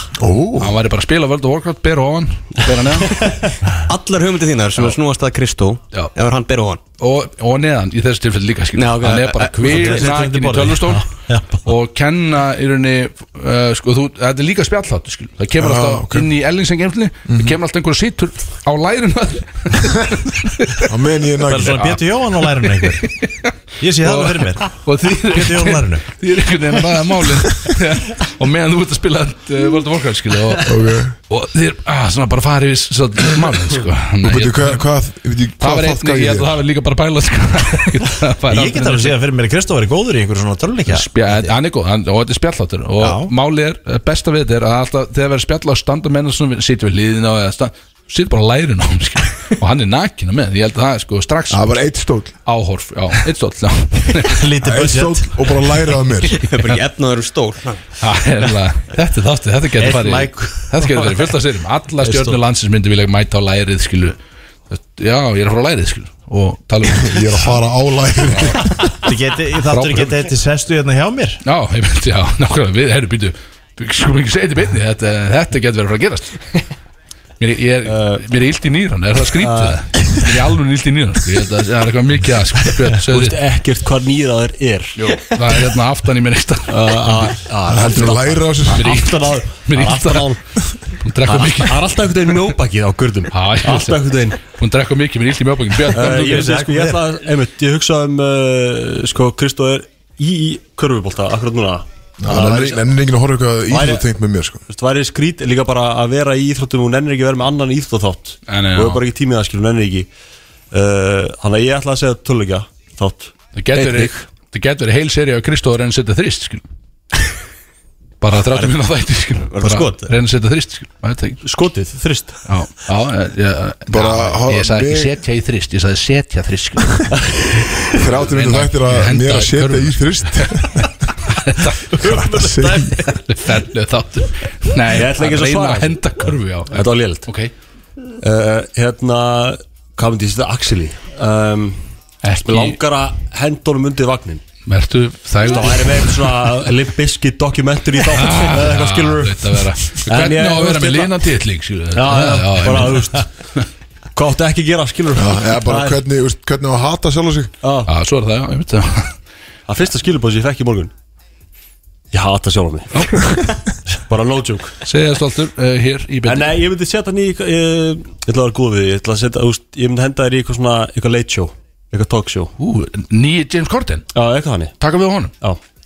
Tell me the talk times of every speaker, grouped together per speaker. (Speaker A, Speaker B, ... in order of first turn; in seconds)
Speaker A: 0.2-0.8, 15.6-16.3, 17.3-17.6, 20.9-22.0, 30.6-31.1, 34.2-36.5, 51.5-52.4, 54.6-56.4, 66.9-69.0, 87.7-88.9, 102.2-104.6, 123.9-125.2, 127.9-130.9, 132.0-132.9, 155.1-157.5
Speaker B: 0.6-3.5, 7.0-11.0, 11.6-20.9, 21.6-34.8, 35.6-39.2, 40.9-51.7, 52.4-54.5, 58.0-64.2, 64.7-67.5, 68.3-68.8, 69.7-70.3, 71.4-76.5, 77.4-83.4, 85.3-87.3, 88.7-91.8, 93.3-96.5, 108.5-109.0, 113.5-116.6, 118.2-121.4, 122.5-127.0, 128.0-137.5, 142.2-142.8, 144.7-146.5, 148.1-153.7, 157.8-159.2, 162.9-163.4, 164.8-166.5, 172.6-174.1, 174.8-175.3
Speaker C: 3.7-6.8, 8.8-10.1, 56.3-57.8, 119.4-120.1
Speaker D: 9.6-11.7, 21.4-23.1, 23.8-26.1, 38.5-41.5, 43.0-43.3, 54.2-55.3, 59.8-61.3, 62.0-62.4, 69.0-71.4, 96.0-97.1, 131.9-133.1
Speaker E: 77.8-78.2, 79.4-79.8, 82.9-85.3, 86.7-90.4, 91.2-94.4, 95.9-103.0, 103.7-104.1, 104.7-110.1, 110.7-114.2, 121.4-122.4, 127.3-127.8, 134.9-136.1, 136.7-137.3, 138.2-141.8, 142.4-144.4, 145.4-151.2, 151.9-153.3, 154.1-156.0, 157.6-157.9, 159.7-160.9, 162.1-164.8, 166.2-172.5, 174.1-174.8